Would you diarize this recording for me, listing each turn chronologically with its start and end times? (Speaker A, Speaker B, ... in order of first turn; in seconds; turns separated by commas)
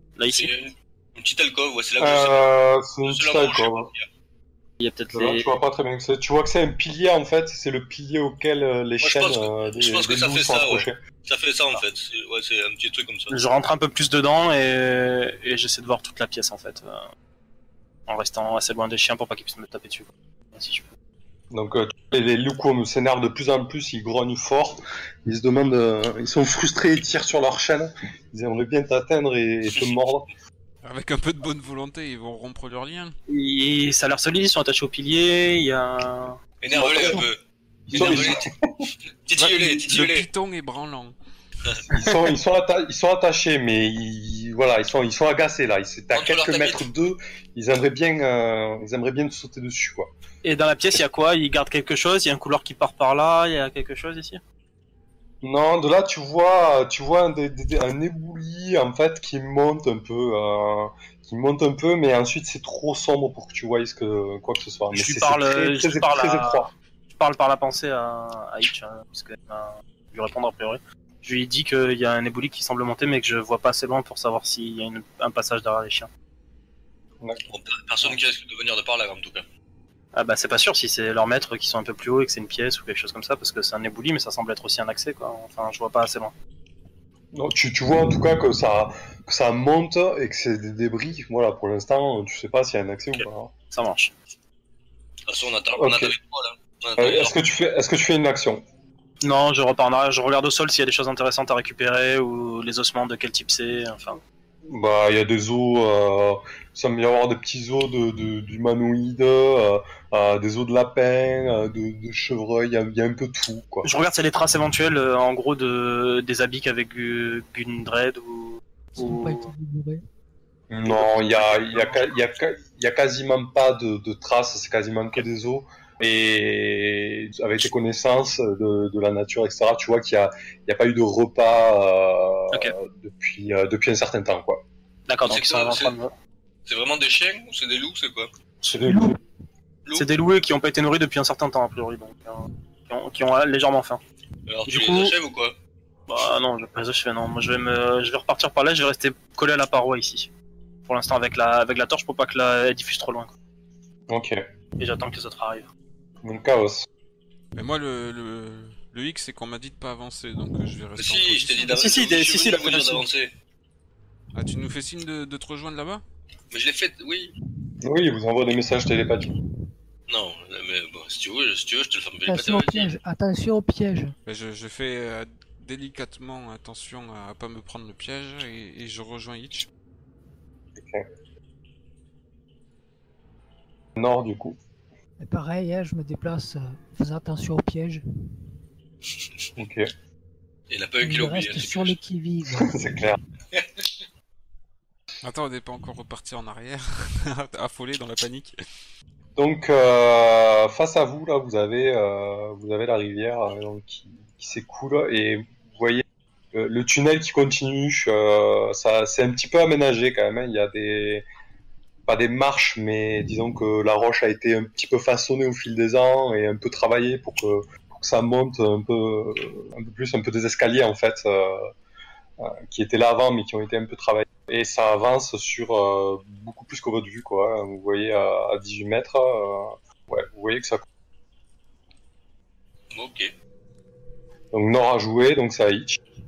Speaker A: 0.2-0.5, Speaker B: 0.3-2.5, Speaker C: 2.0-3.9, Speaker B: 3.0-4.1, Speaker A: 4.8-5.5, Speaker C: 5.1-11.0, Speaker B: 9.0-13.3, Speaker A: 13.3-17.0, Speaker A: 18.1-20.9, Speaker C: 21.5-30.3, Speaker D: 30.8-33.1, Speaker A: 33.3-37.2, Speaker B: 36.6-37.4, Speaker A: 37.9-38.4, Speaker B: 37.9-38.5, Speaker C: 37.9-38.9, Speaker B: 39.2-40.3, Speaker D: 39.4-41.1, Speaker C: 41.9-50.1, Speaker B: 46.1-46.9, Speaker A: 50.4-54.4, Speaker C: 55.4-66.7, Speaker A: 64.9-76.1, Speaker B: 77.5-79.4, Speaker A: 80.1-86.3, Speaker C: 87.3-93.5, Speaker A: 93.2-94.1, Speaker B: 95.3-97.3, Speaker C: 95.8-96.1, Speaker C: 97.0-98.6, Speaker A: 99.2-104.2, Speaker C: 104.7-113.9, Speaker A: 113.8-119.5, Speaker E: 118.9-120.0, Speaker C: 120.7-134.6, Speaker A: 120.9-122.1, Speaker A: 135.1-136.1, Speaker B: 135.2-135.9, Speaker B: 136.7-138.3, Speaker C: 138.6-139.2, Speaker E: 138.8-139.2, Speaker A: 139.9-144.0, Speaker B: 144.5-145.5, Speaker A: 144.7-145.1, Speaker A: 146.1-150.3, Speaker A: 150.9-153.3, Speaker C: 154.1-154.4, Speaker A: 154.8-155.7, Speaker C: 156.2-156.9, Speaker D: 157.5-161.8, Speaker B: 161.0-163.3, Speaker A: 161.7-163.1, Speaker D: 164.3-166.0, Speaker B: 166.5-167.3, Speaker C: 167.8-169.3, Speaker B: 170.1-172.9, Speaker E: 172.2-174.2, Speaker D: 174.2-179.7, Speaker C: 180.8-181.0, Speaker C: 184.0-184.6, Speaker E: 185.2-188.0, Speaker C: 189.6-189.9, Speaker B: 190.7-192.0, Speaker E: 191.0-192.7, Speaker C: 192.6-193.2, Speaker B: 193.5-193.9, Speaker D: 195.2-198.5, Speaker C: 199.3-211.2, Speaker C: 212.1-221.7, Speaker C: 222.4-230.8, Speaker B: 232.9-233.3, Speaker C: 234.5-236.0